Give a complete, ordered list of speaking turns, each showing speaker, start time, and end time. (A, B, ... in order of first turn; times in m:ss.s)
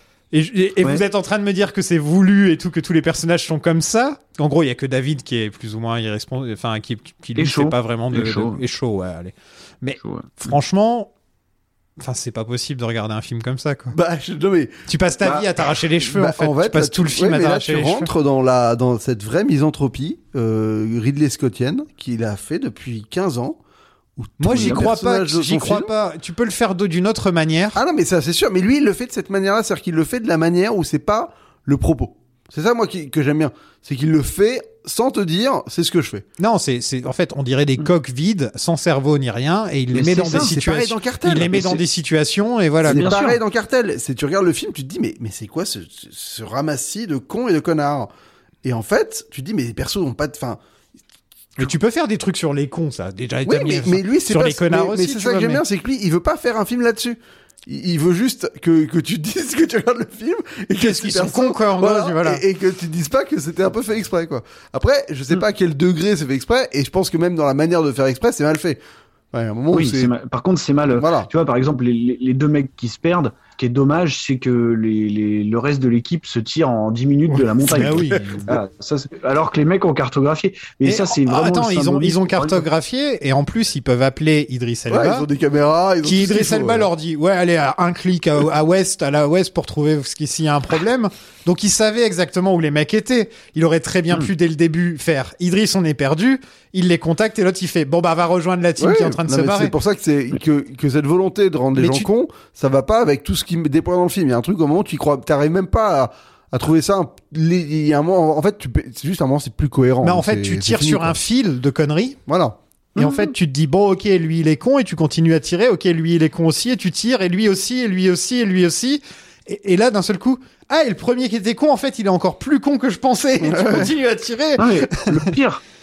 0:00.3-0:11.1 A
0:07.4-0:08.6 B
0:10.0-0:10.5 B
0:12.0-0:14.0 A
0:13.9-0:23.6 C
0:14.9-0:18.1 A
0:24.2-0:25.9 C
0:24.4-0:27.8 A
0:24.6-0:24.9 B
0:27.7-0:36.2 C
0:36.4-0:43.1 A
0:39.9-0:40.5 B
0:40.3-0:41.8 C
0:41.5-0:41.8 B
0:42.8-0:48.1 C
0:42.8-0:43.4 B
0:48.6-0:50.6 C
0:51.6-0:55.6 A
0:53.4-1:08.8 C
1:00.8-1:02.4 A
1:09.3-1:10.1 C
1:09.7-1:22.6 B
1:10.9-1:11.3 C
1:17.3-1:18.6 C
1:17.6-1:18.6 A
1:20.8-1:25.3 A
1:24.9-1:26.9 C
1:26.0-1:39.7 A
1:38.8-1:51.2 C
1:41.8-1:42.1 A
1:50.0-1:52.2 A
1:52.3-1:52.6 C
1:53.0-1:53.3 B
1:53.0-2:05.2 A
2:03.4-2:03.9 C
2:04.6-2:05.6 B